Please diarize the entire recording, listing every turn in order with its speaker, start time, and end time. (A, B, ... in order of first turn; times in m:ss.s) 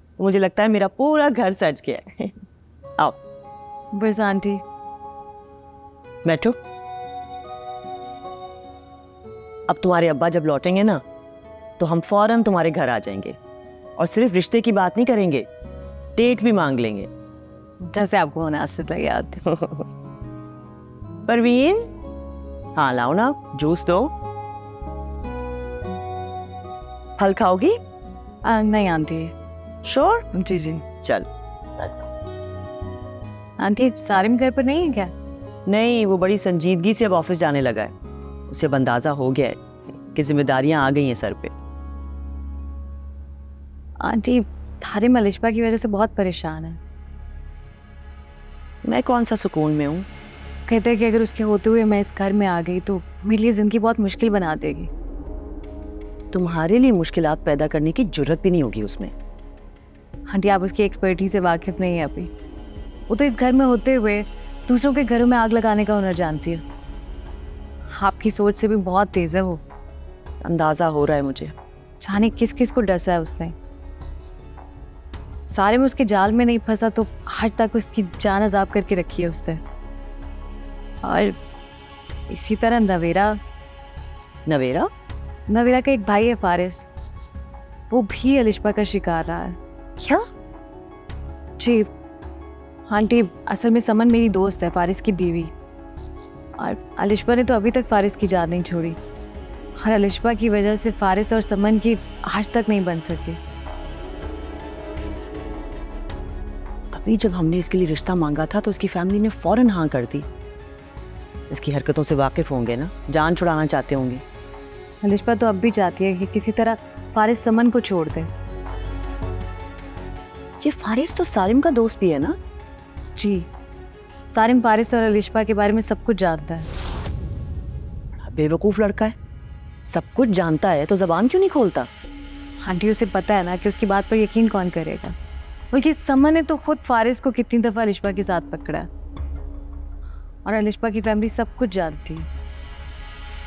0:00.2-0:02.4 A
0:04.0-0:04.6 B
0:06.2-0:06.6 A
0:09.7-0:11.0 A
0:11.8-0:13.4 A
0:14.0-0:15.5 A
0:16.2-0:17.1 A
0:17.8-0:19.7 B
0:21.3-0:21.9 A
0:22.8-0:24.1 A
0:27.2-0:27.8 A
0:28.4-0:29.3 B
0:29.8-0:30.3 A
0:30.3-0:30.8 B
0:33.6-0:35.1 B
0:35.7-0:37.9 A
0:38.5-0:39.6 A
0:40.1-0:41.5 A
0:44.0-0:46.8 B
0:48.8-0:50.1 A
0:50.7-0:54.9 B
0:56.3-0:59.1 A
1:00.3-1:02.3 B
1:03.1-1:06.6 B
1:07.9-1:09.6 B
1:10.4-1:11.5 A
1:12.0-1:13.5 B
1:15.5-1:19.6 B
1:21.0-1:21.4 B
1:22.3-1:23.4 B
1:24.5-1:24.9 A
1:25.5-1:26.9 B
1:27.9-1:29.6 B
1:31.6-1:31.9 B
1:32.9-1:35.5 B
1:36.6-1:39.0 B
1:39.8-1:43.4 B
1:46.9-1:50.3 A
1:51.5-1:54.2 A
1:55.0-1:58.3 B
2:00.6-2:02.4 A
2:03.2-2:03.5 B
2:04.3-2:06.7 B
2:08.2-2:09.2 A
2:09.9-2:11.9 A
2:12.6-2:15.1 B
2:15.7-2:18.9 B
2:20.4-2:22.3 B